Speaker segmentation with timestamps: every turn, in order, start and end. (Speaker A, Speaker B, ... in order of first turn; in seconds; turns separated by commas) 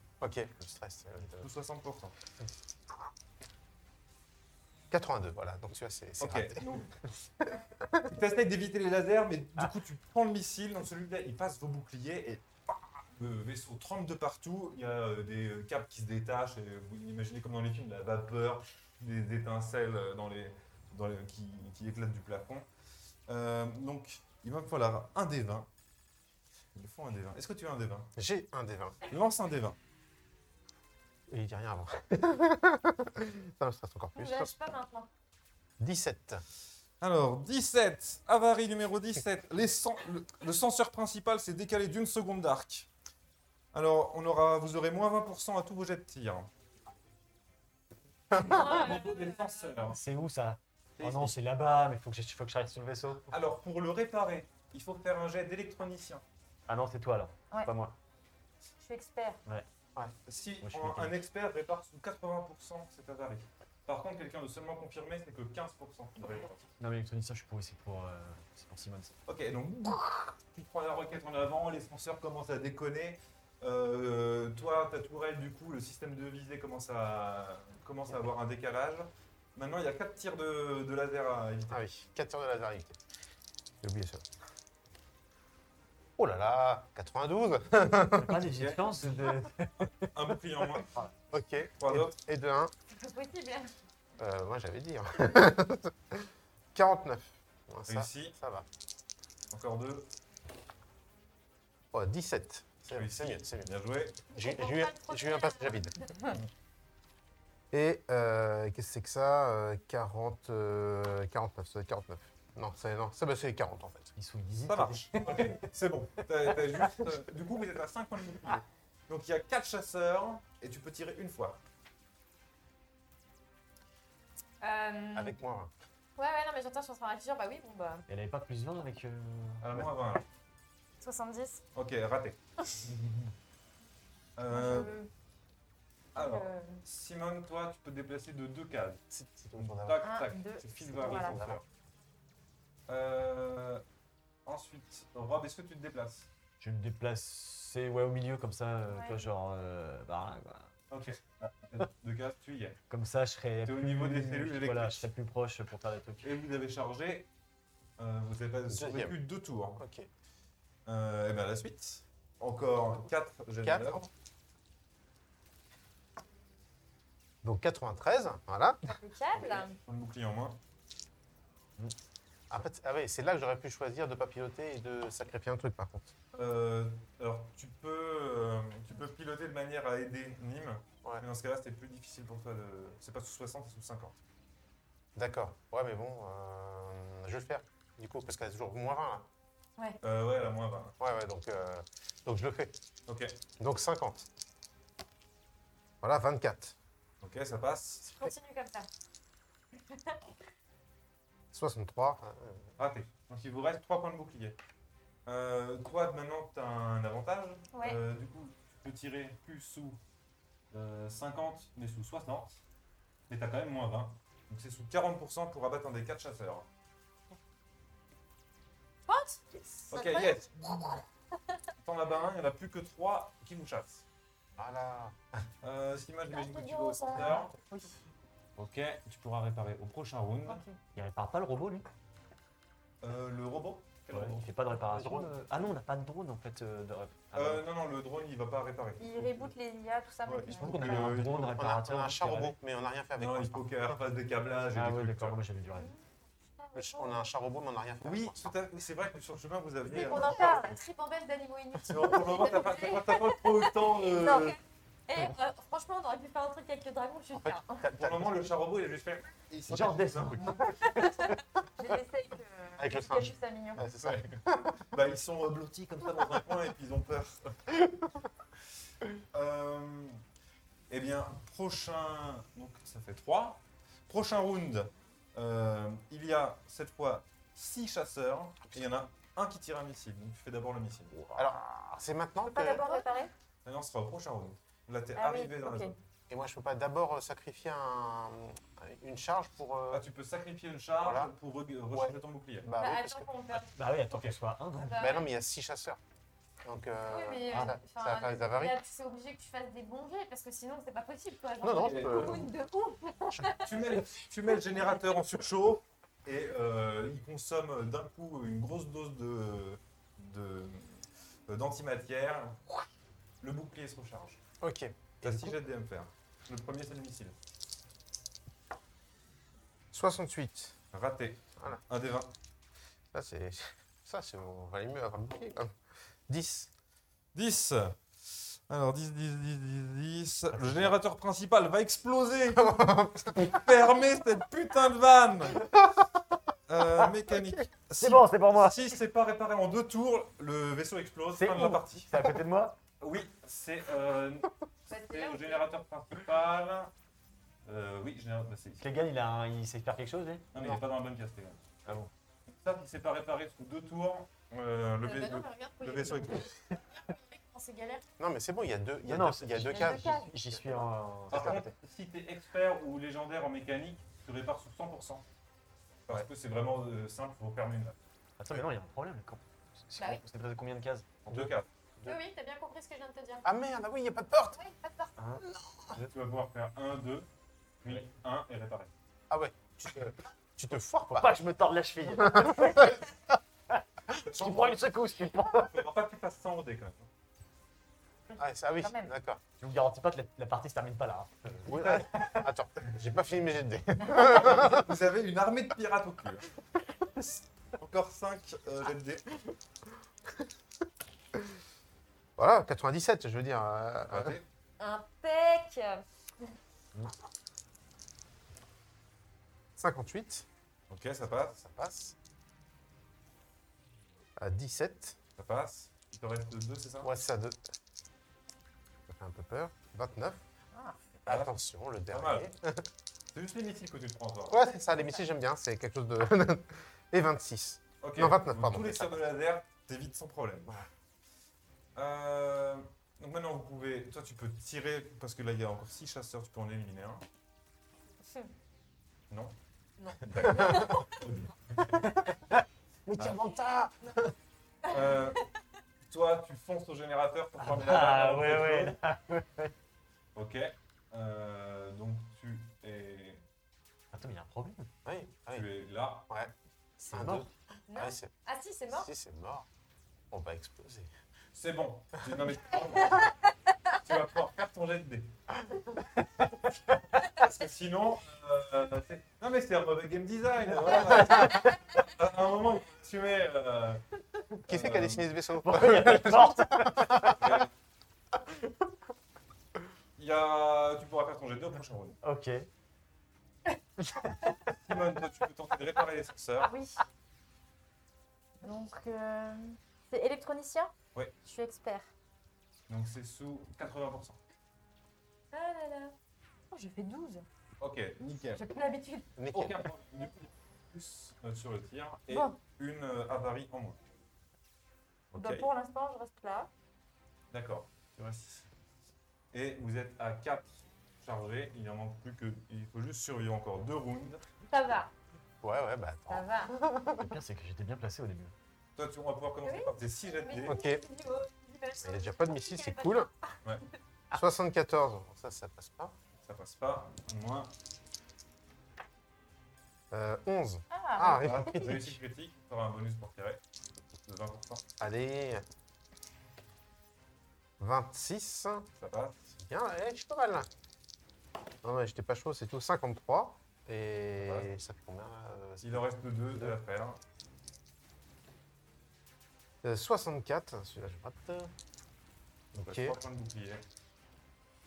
Speaker A: 0.2-1.5, Speaker B: 1.2-2.1, Speaker A: 4.9-6.8, Speaker B: 6.2-6.9, Speaker A: 7.4-8.1, Speaker B: 8.0-22.7, Speaker B: 23.3-25.7, Speaker B: 26.7-28.1, Speaker A: 28.1-29.0, Speaker B: 29.1-29.8, Speaker A: 31.3-34.5, Speaker C: 34.1-35.1, Speaker A: 35.8-36.4, Speaker B: 37.0-42.9, Speaker B: 43.7-46.5, Speaker B: 48.3-50.0, Speaker C: 48.4-49.8, Speaker D: 49.9-53.3, Speaker B: 51.0-51.4, Speaker B: 53.3-56.2, Speaker D: 56.7-58.0, Speaker E: 58.8-59.4, Speaker B: 60.2-66.7, Speaker D: 60.6-61.1, Speaker D: 66.8-69.2, Speaker B: 69.2-81.8, Speaker A: 81.7-83.0, Speaker A: 83.8-84.2, Speaker A: 86.2-88.4, Speaker D: 88.1-90.1, Speaker B: 88.6-90.9, Speaker D: 90.8-91.1, Speaker A: 91.3-92.7, Speaker B: 91.8-92.2, Speaker C: 92.9-93.7, Speaker A: 94.2-98.7, Speaker B: 97.9-98.3, Speaker B: 99.5-100.1, Speaker A: 101.9-103.7, Speaker B: 102.9-104.2, Speaker A: 104.3-106.0, Speaker C: 104.3-106.3, Speaker A: 107.7-114.1, Speaker D: 114.2-115.7, Speaker B: 114.7-121.6, Speaker D: 116.5-117.1, Speaker C: 124.6-125.3, Speaker A: 125.1-125.7, Speaker C: 126.2-128.0, Speaker D: 128.1-129.9, Speaker B: 129.6-130.2, Speaker C: 131.0-131.6, Speaker B: 131.7-132.4, Speaker B: 134.4-134.9, Speaker E: 134.5-135.1, Speaker C: 134.7-135.1, Speaker B: 136.1-139.0, Speaker E: 136.2-136.6, Speaker A: 139.1-140.2, Speaker B: 139.6-141.6, Speaker E: 140.0-141.4, Speaker A: 140.8-141.6, Speaker B: 142.9-143.8, Speaker B: 144.4-146.3, Speaker D: 146.6-150.7, Speaker B: 150.9-152.8, Speaker D: 152.9-156.3, Speaker B: 153.6-155.1, Speaker B: 156.2-157.3, Speaker B: 158.0-159.8, Speaker A: 158.7-159.2, Speaker A: 159.8-160.1, Speaker B: 160.8-164.1, Speaker A: 163.6-164.1, Speaker A: 167.4-168.8, Speaker C: 168.8-169.8, Speaker B: 169.4-170.6, Speaker A: 172.5-176.1, Speaker B: 176.3-184.1, Speaker A: 185.1-189.3, Speaker B: 190.0-191.0, Speaker A: 191.0-192.8, Speaker B: 193.1-193.4, Speaker A: 193.6-194.3, Speaker A: 196.0-196.8, Speaker B: 197.2-198.3, Speaker C: 198.1-198.9, Speaker C: 199.9-200.2, Speaker A: 201.5-202.7, Speaker B: 202.8-204.6, Speaker B: 205.2-210.0, Speaker C: 207.7-208.0, Speaker B: 210.7-212.6, Speaker B: 213.3-216.7, Speaker C: 219.1-221.0, Speaker B: 219.9-221.0, Speaker B: 221.8-224.0, Speaker A: 224.6-225.4, Speaker B: 225.6-227.5, Speaker C: 226.3-227.5, Speaker B: 228.6-230.6, Speaker D: 230.9-231.9, Speaker B: 233.0-234.5, Speaker D: 234.1-237.6, Speaker A: 234.9-235.3, Speaker B: 237.3-239.5, Speaker E: 239.0-241.2, Speaker B: 240.2-241.6, Speaker D: 240.6-242.6, Speaker A: 241.2-243.7, Speaker B: 243.2-245.4, Speaker D: 244.7-245.9, Speaker C: 245.7-247.2, Speaker A: 246.7-248.5, Speaker B: 248.0-250.8, Speaker C: 249.9-254.6, Speaker B: 251.9-254.6, Speaker C: 255.1-257.8, Speaker A: 257.3-258.4, Speaker B: 257.9-260.6, Speaker D: 259.7-261.3, Speaker C: 260.9-261.3, Speaker E: 261.8-263.9, Speaker A: 262.8-264.8, Speaker B: 263.9-267.6, Speaker B: 269.3-270.2, Speaker B: 270.9-281.3, Speaker A: 281.3-282.9, Speaker E: 282.4-283.3, Speaker C: 282.8-283.2, Speaker B: 283.6-286.0, Speaker E: 285.1-285.9, Speaker A: 286.3-290.1, Speaker B: 289.9-292.7, Speaker A: 291.0-291.3, Speaker A: 291.9-293.3, Speaker C: 292.7-293.8, Speaker D: 293.7-294.9, Speaker B: 294.1-294.4, Speaker C: 294.8-295.3, Speaker A: 295.0-296.0, Speaker A: 296.6-298.8, Speaker C: 297.1-304.1, Speaker A: 301.6-302.5, Speaker B: 301.8-302.5, Speaker B: 303.5-312.8, Speaker B: 313.4-314.4, Speaker A: 314.6-315.6, Speaker B: 315.2-317.4, Speaker A: 319.9-320.8, Speaker B: 320.9-322.3, Speaker A: 323.1-325.7, Speaker A: 326.3-326.7, Speaker B: 327.3-335.6, Speaker D: 330.5-330.9, Speaker A: 332.5-333.5, Speaker A: 335.6-336.1, Speaker B: 336.7-342.1, Speaker A: 337.3-337.6, Speaker D: 338.0-338.9, Speaker D: 341.3-342.8, Speaker B: 343.0-346.9, Speaker C: 344.9-345.6, Speaker B: 347.6-348.8, Speaker D: 348.8-350.5, Speaker B: 350.5-351.8, Speaker A: 350.5-350.8, Speaker B: 352.5-356.5, Speaker C: 355.0-358.1, Speaker A: 358.2-361.7, Speaker D: 359.1-361.6, Speaker E: 359.7-360.2, Speaker C: 359.8-360.2, Speaker B: 361.3-365.2, Speaker B: 366.1-368.0, Speaker D: 368.4-371.4, Speaker C: 370.0-370.2, Speaker B: 371.3-371.7, Speaker C: 372.0-373.4, Speaker A: 373.4-374.6, Speaker C: 374.5-375.1, Speaker A: 375.5-376.0, Speaker B: 375.9-377.3, Speaker B: 377.8-378.9, Speaker A: 379.3-381.3, Speaker D: 381.1-383.1, Speaker A: 382.2-383.0, Speaker D: 383.7-385.8, Speaker B: 384.2-384.8, Speaker B: 385.6-387.1, Speaker E: 388.3-389.1, Speaker A: 388.4-389.4, Speaker D: 389.6-392.4, Speaker A: 391.6-394.9, Speaker B: 394.1-396.5, Speaker B: 397.8-399.2, Speaker A: 402.4-404.4, Speaker B: 404.1-404.4, Speaker C: 404.8-406.0, Speaker A: 409.8-410.5, Speaker B: 410.9-411.6, Speaker A: 411.6-412.1, Speaker A: 414.4-415.2, Speaker B: 415.4-417.1, Speaker A: 417.0-417.6, Speaker A: 419.1-420.4, Speaker B: 421.2-421.6, Speaker A: 421.2-422.9, Speaker B: 422.1-422.5, Speaker B: 423.3-424.6, Speaker A: 424.5-429.2, Speaker B: 428.0-430.8, Speaker B: 431.9-437.2, Speaker B: 439.3-439.6, Speaker C: 440.0-441.0, Speaker B: 440.2-441.9, Speaker A: 440.4-441.1, Speaker A: 443.1-444.3, Speaker B: 444.9-445.4, Speaker C: 444.9-445.2, Speaker B: 446.0-449.0, Speaker D: 447.6-449.7, Speaker B: 450.3-453.4, Speaker D: 454.1-454.9, Speaker A: 455.0-455.7, Speaker B: 455.5-456.3, Speaker D: 457.0-457.5, Speaker A: 457.1-458.3, Speaker C: 457.9-459.1, Speaker A: 458.9-459.7, Speaker A: 460.3-461.1, Speaker B: 461.5-463.3, Speaker B: 464.0-465.4, Speaker B: 467.2-474.0, Speaker A: 471.0-471.5, Speaker A: 474.6-477.5, Speaker B: 474.7-475.3, Speaker D: 475.6-477.4, Speaker B: 477.4-477.7, Speaker B: 480.2-482.2, Speaker D: 482.2-482.7, Speaker D: 484.0-484.4, Speaker B: 484.7-486.7, Speaker C: 486.6-487.0, Speaker E: 488.6-492.1, Speaker B: 492.9-494.4, Speaker C: 495.5-496.1, Speaker E: 496.7-497.4, Speaker B: 497.8-498.6, Speaker C: 498.6-499.3, Speaker A: 499.4-499.8, Speaker B: 499.5-504.0, Speaker E: 502.3-502.6, Speaker B: 505.3-505.7, Speaker E: 505.3-506.7, Speaker B: 507.5-508.7, Speaker B: 509.5-514.4, Speaker C: 514.7-515.1, Speaker A: 515.6-517.4, Speaker C: 516.3-516.7, Speaker D: 517.1-518.5, Speaker B: 519.0-520.8, Speaker C: 519.6-523.3, Speaker A: 520.6-521.0, Speaker A: 522.0-523.3, Speaker A: 524.3-526.1, Speaker B: 526.4-527.7, Speaker A: 530.1-532.2, Speaker E: 530.9-531.8, Speaker B: 531.3-533.6, Speaker B: 534.2-534.8, Speaker A: 535.0-535.6, Speaker A: 537.8-538.9, Speaker B: 539.0-539.5, Speaker A: 539.5-540.7, Speaker A: 541.8-546.8, Speaker B: 544.4-544.7, Speaker B: 545.8-547.2, Speaker A: 549.8-551.7, Speaker A: 552.7-553.2, Speaker B: 552.7-553.8